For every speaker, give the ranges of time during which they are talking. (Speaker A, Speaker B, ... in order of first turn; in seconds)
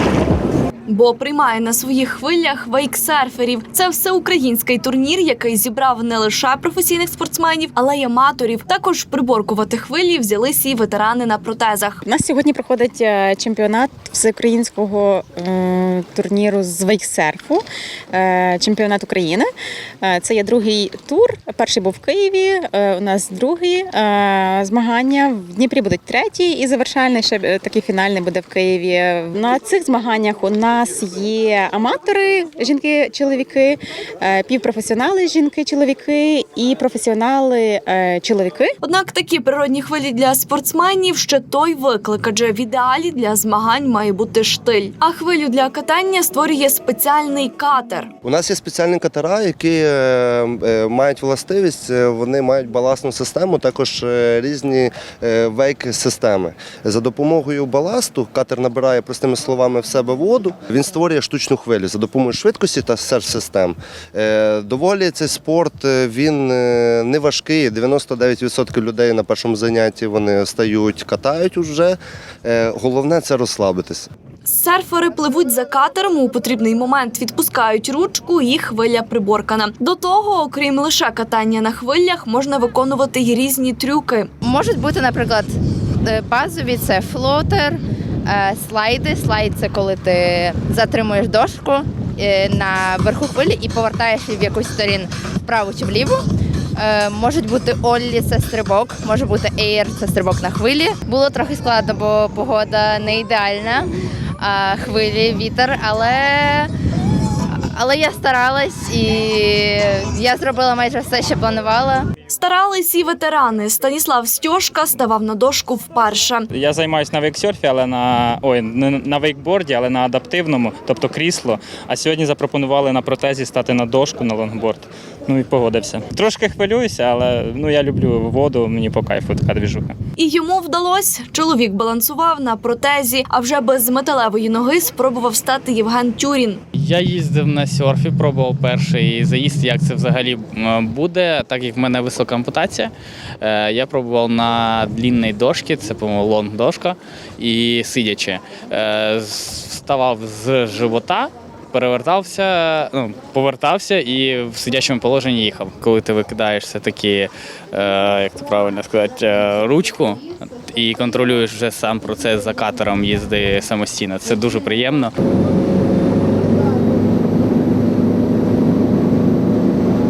Speaker A: 0.9-12.0, 38.8-48.1, 74.5-84.3, 112.3-116.5, 130.2-136.6
Speaker B: 12.1-19.5, 20.0-38.7
Speaker C: 48.2-74.1
Speaker D: 84.5-85.5, 86.1-96.2, 96.8-103.9, 104.4-106.7, 107.7-112.1
Speaker E: 116.5-130.0
Speaker F: 136.7-165.1